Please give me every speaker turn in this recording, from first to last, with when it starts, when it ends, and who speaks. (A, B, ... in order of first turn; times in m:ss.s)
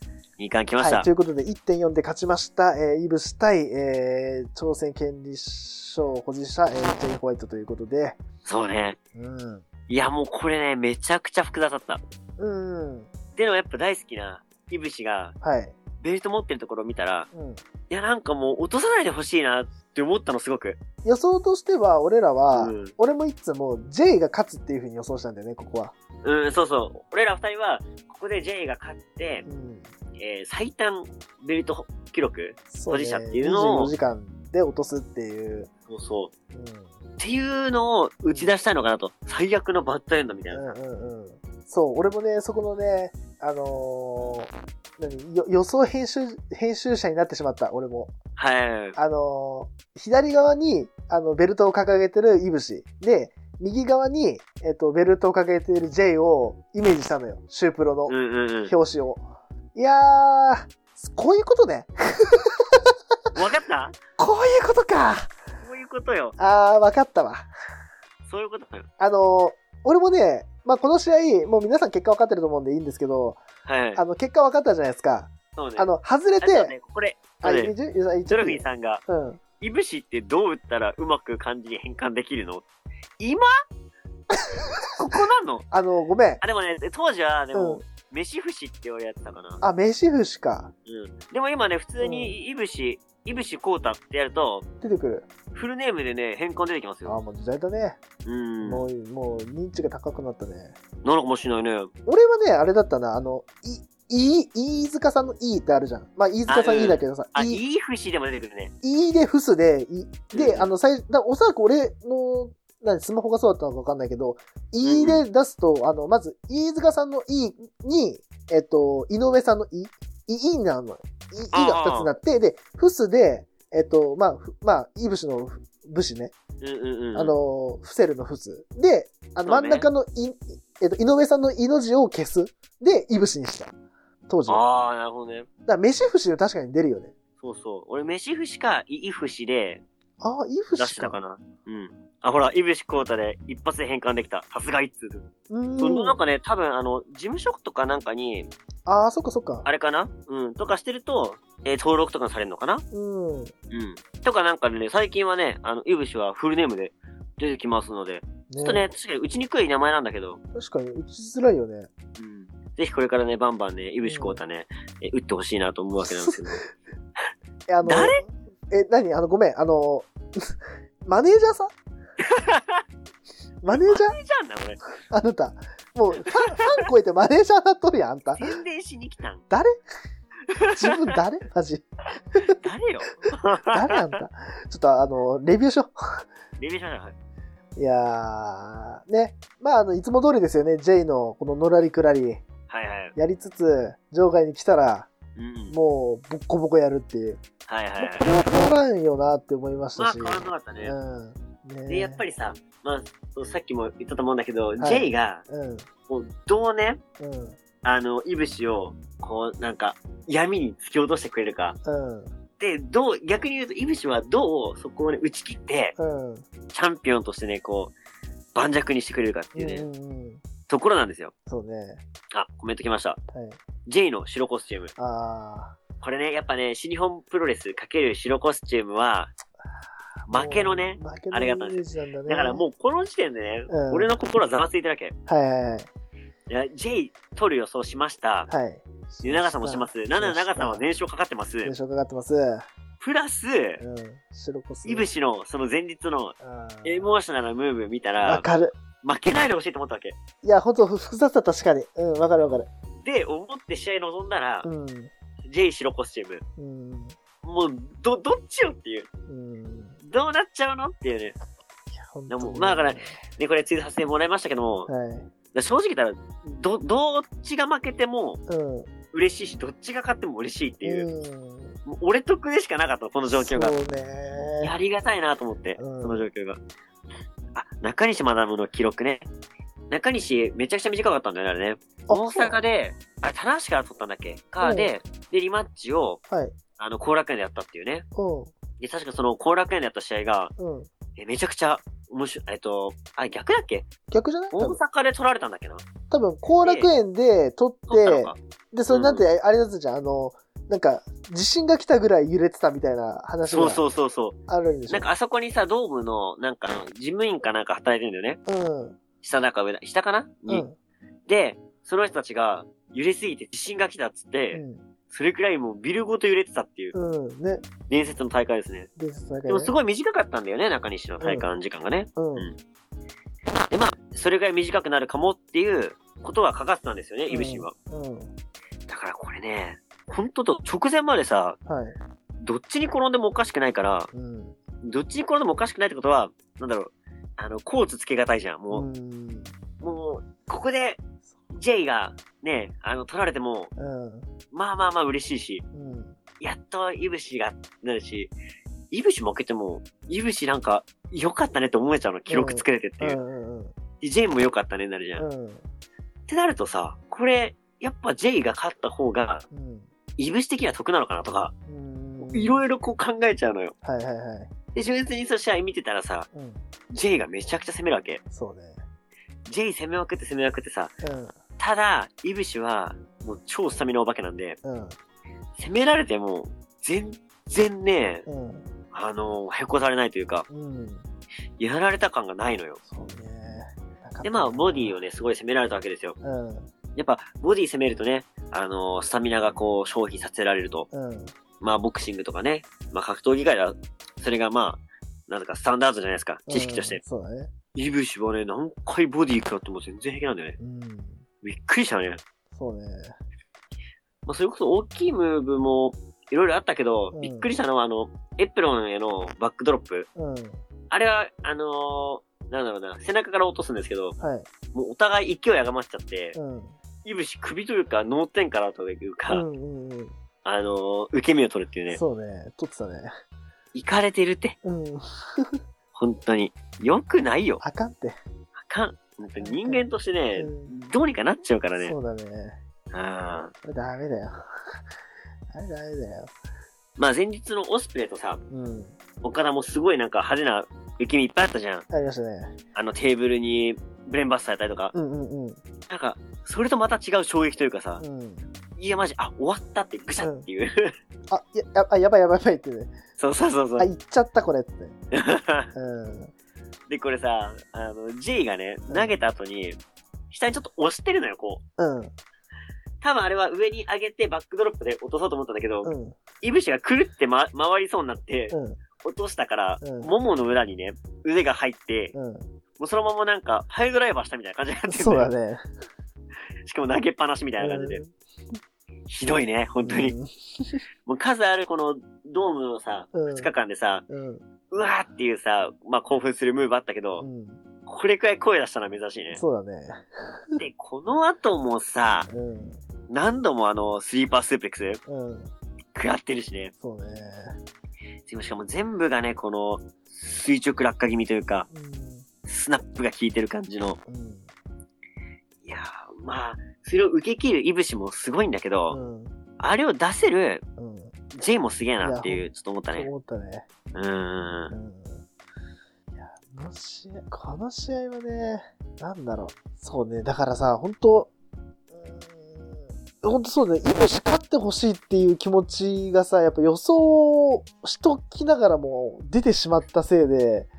0:00.4-0:01.1 A
0:00.8-0:08.2 B
0:08.4-0:09.0 A
0:09.2-0:09.6 B
0:09.9-0:12.0 A
0:12.4-0:13.1 B
0:13.4-0:15.4 A
0:15.4-0:15.8 B
0:16.0-0:17.3 A
0:17.3-0:17.6 B
0:17.9-0:20.8 A
0:21.0-0:25.9 B
0:22.5-0:22.9 A
0:26.2-0:29.5 A
0:29.4-0:29.9 B
0:30.2-0:33.9 A
0:32.7-0:35.7 B
0:35.9-0:36.3 A
0:36.5-0:36.9 B
0:37.2-0:40.7 A
0:40.5-0:48.1 B
0:48.4-0:49.0 A
0:49.0-0:58.2 B
0:58.1-0:58.7 A
0:58.7-0:59.2 B
0:59.8-1:03.0 B
1:03.4-1:04.0 A
1:04.2-1:05.3 B
1:05.6-1:06.4 A
1:06.4-1:07.5 B
1:08.3-1:08.9 A
1:09.0-1:13.4 B
1:13.7-1:14.0 A
1:14.0-1:16.7 B
1:15.6-1:15.9 A
1:16.4-1:17.7 A
1:17.4-1:19.4 B
1:18.3-1:19.0 A
1:19.6-1:22.7 A
1:23.2-1:23.5 A
1:24.3-1:26.4 B
1:25.0-1:25.6 A
1:26.4-1:29.6 A
1:27.5-1:27.8 B
1:29.6-1:30.7 B
1:30.9-1:34.7 A
1:32.0-1:32.4 B
1:34.8-1:35.3 B
1:35.5-1:37.2 A
1:37.0-1:38.0 B
1:38.2-1:38.8 A
1:38.6-1:40.8 B
1:41.0-1:41.9 A
1:42.1-1:47.6 B
1:46.5-1:48.7 A
1:48.8-2:06.3 B
1:50.3-1:50.7 A
1:54.8-1:55.2 A
2:01.5-2:02.1 A
2:06.6-2:07.4 A
2:07.1-2:13.7 B
2:09.5-2:09.9 A
2:14.3-2:14.6 B
2:14.5-2:15.5 A
2:15.7-2:17.1 B
2:17.4-2:19.8 A
2:20.2-2:21.2 B
2:20.8-2:25.3 A
2:25.5-2:26.2 B
2:25.8-2:28.5 A
2:28.9-2:29.7 B
2:29.6-2:32.8 A
2:32.9-2:33.5 B
2:33.7-2:40.4 A
2:38.5-2:38.8 B
2:40.5-2:41.9 B
2:42.2-2:46.6 A
2:44.0-2:44.4 B
2:46.0-2:46.4 B
2:47.7-2:51.7 B
2:47.8-2:48.2 A
2:52.2-2:52.8 A
2:53.6-2:54.2 B
2:53.7-2:54.8 A
2:55.1-2:58.6 B
2:58.4-2:59.4 A
2:59.5-2:59.8 B
3:00.5-3:01.2 A
3:00.7-3:02.6 B
3:02.5-3:04.2 A
3:03.7-3:06.2 B
3:06.6-3:07.2 A
3:07.8-3:12.4 B
3:12.7-3:13.2 A
3:13.2-3:15.1 B
3:15.4-3:15.8 A
3:15.7-3:17.4 B
3:17.7-3:18.4 A
3:18.0-3:22.2 B
3:20.0-3:21.0 A
3:21.9-3:25.4 A
3:24.8-3:25.9 B
3:26.1-3:27.0 A
3:27.2-3:27.6 B
3:27.8-3:31.8 A
3:31.8-3:32.3 B
3:32.6-3:36.0 A
3:36.0-3:36.4 B
3:36.7-3:37.9 A
3:38.6-3:39.9 A
3:39.6-3:40.4 B
3:40.7-3:41.3 A
3:41.5-3:42.0 B
3:42.3-3:43.2 A
3:43.3-3:43.6 B
3:43.9-3:44.9 A
3:45.0-3:45.8 B
3:46.0-3:49.3 A
3:50.3-3:52.6 B
3:50.3-3:55.2 A
3:53.7-3:54.2 B
3:55.3-3:55.9 B
3:56.5-3:58.5 A
3:58.5-4:00.8 B
3:59.2-4:01.7 A
4:01.6-4:02.7 B
4:03.0-4:03.8 A
4:03.8-4:05.1 B
4:04.8-4:08.5 A
4:06.4-4:07.1 B
4:08.2-4:08.7 B
4:09.0-4:10.2 A
4:10.4-4:12.7 B
4:13.0-4:14.7 A
4:14.6-4:15.1 B
4:15.5-4:16.4 A
4:16.6-4:17.2 B
4:17.4-4:19.1 A
4:19.3-4:20.0 B
4:20.0-4:21.4 A
4:21.9-4:23.2 B
4:22.3-4:24.9 A
4:24.9-4:25.3 B
4:25.5-4:28.4 A
4:28.5-4:28.9 B
4:29.1-4:31.1 A
4:30.8-4:31.8 B
4:31.9-4:33.8 A
4:33.3-4:34.7 B
4:34.6-4:36.6 A
4:35.8-4:36.3 B
4:37.6-4:39.3 A
4:39.9-4:46.2 A
4:42.1-4:42.6 B
4:44.6-4:44.9 B
4:46.3-4:46.6 B
4:46.8-4:48.1 A
4:48.2-4:48.5 B
4:48.8-4:50.5 A
4:50.6-4:50.9 B
4:51.2-4:53.9 A
4:54.1-4:54.8 B
4:54.5-4:55.8 A
4:56.1-5:03.8 B
4:56.6-4:56.9 A
4:57.9-4:58.4 A
4:58.9-4:59.2 A
5:03.5-5:04.4 A
5:04.5-5:05.1 B
5:04.9-5:08.4 A
5:08.5-5:09.0 B
5:09.2-5:10.7 A
5:10.5-5:10.8 B
5:11.3-5:17.0 A
5:14.5-5:14.8 B
5:16.9-5:17.7 B
5:17.9-5:18.9 A
5:19.0-5:19.8 B
5:19.5-5:22.6 A
5:21.2-5:21.5 B
5:22.2-5:22.5 B
5:23.7-5:27.7 A
5:27.3-5:28.3 B
5:28.9-5:31.6 A
5:31.7-5:32.0 B
5:32.4-5:34.1 A
5:34.1-5:34.6 B
5:34.8-5:38.9 A
5:38.7-5:39.5 B
5:39.8-5:41.0 A
5:41.5-5:43.7 A
5:43.8-5:44.3 B
5:44.5-5:45.6 A
5:45.7-5:46.2 B
5:46.4-5:48.3 A
5:48.9-5:53.2 A
5:52.3-5:53.7 B
5:54.0-5:55.2 A
5:55.2-5:55.6 B
5:56.3-5:59.5 A
5:59.5-5:59.9 B
6:00.2-6:01.5 A
6:01.7-6:02.6 B
6:02.2-6:03.7 A
6:03.8-6:04.5 B
6:04.7-6:06.3 A
6:06.3-6:06.6 B
6:06.9-6:08.2 A
6:08.3-6:08.8 B
6:09.5-6:10.9 A
6:11.0-6:11.4 B
6:11.6-6:14.6 A
6:14.6-6:15.0 B
6:15.6-6:18.3 A
6:18.3-6:18.7 B
6:18.9-6:20.5 A
6:20.5-6:21.1 B
6:21.6-6:22.8 A
6:22.9-6:25.0 B
6:24.2-6:26.2 A
6:26.2-6:26.7 B
6:27.0-6:30.9 A
6:30.9-6:31.3 B
6:31.6-6:37.0 A
6:36.5-6:37.5 B
6:37.8-6:40.6 A
6:40.6-6:41.2 B
6:41.4-6:42.2 A
6:42.5-6:43.2 B
6:44.3-6:50.1 A
6:47.1-6:47.5 B
6:50.2-6:50.6 B
6:50.9-6:54.2 A
6:54.2-6:54.5 B
6:54.7-6:56.4 A
6:56.4-6:56.8 B
6:57.0-6:59.4 A
6:59.3-7:00.1 B
7:00.4-7:02.0 A
7:01.9-7:03.1 B
7:03.7-7:04.6 A
7:04.6-7:05.6 B
7:06.0-7:07.6 A
7:07.6-7:08.2 B
7:08.7-7:11.9 A
7:09.4-7:10.7 B
7:11.8-7:12.6 B
7:12.9-7:13.5 A
7:13.6-7:14.8 B
7:15.5-7:16.3 B
7:17.0-7:18.4 A
7:18.5-7:19.0 B
7:19.2-7:21.9 A
7:21.9-7:22.6 B
7:22.8-7:24.9 A
7:24.9-7:25.6 B
7:25.9-7:28.0 A
7:28.0-7:28.5 B
7:28.8-7:30.9 A
7:30.2-7:30.5 B
7:31.3-7:32.9 B
7:33.2-7:33.9 A
7:33.8-7:35.0 B
7:35.1-7:35.7 A
7:35.7-7:36.3 B
7:36.9-7:39.8 A
7:38.9-7:39.2 B
7:40.3-7:41.6 A
7:41.8-7:42.1 B
7:43.0-7:52.1 A
7:45.8-7:46.2 B
7:48.5-7:48.8 B
7:49.8-7:50.1 B
7:52.1-7:52.5 B
7:52.8-7:55.3 A
7:54.9-7:55.6 B
7:56.6-7:58.0 A
7:57.6-7:58.6 B
7:59.1-8:00.2 A
7:59.8-8:00.8 B
8:01.1-8:04.0 A
8:03.1-8:03.5 B
8:04.1-8:04.4 B
8:04.7-8:07.3 A
8:07.2-8:07.6 B
8:07.9-8:09.4 A
8:09.3-8:10.6 B
8:10.6-8:12.3 A
8:12.3-8:12.8 B
8:13.1-8:15.0 A
8:15.1-8:15.5 B
8:15.9-8:16.7 A
8:16.8-8:17.6 B
8:18.3-8:21.7 A
8:21.7-8:22.3 B
8:22.5-8:24.0 A
8:24.1-8:24.5 B
8:25.6-8:29.0 A
8:28.9-8:29.4 B
8:29.6-8:30.6 A
8:30.8-8:31.2 B
8:31.3-8:33.1 A
8:32.0-8:33.7 B
8:33.9-8:34.7 A
8:34.7-8:35.2 B
8:36.1-8:41.3 B
8:41.9-8:50.7 B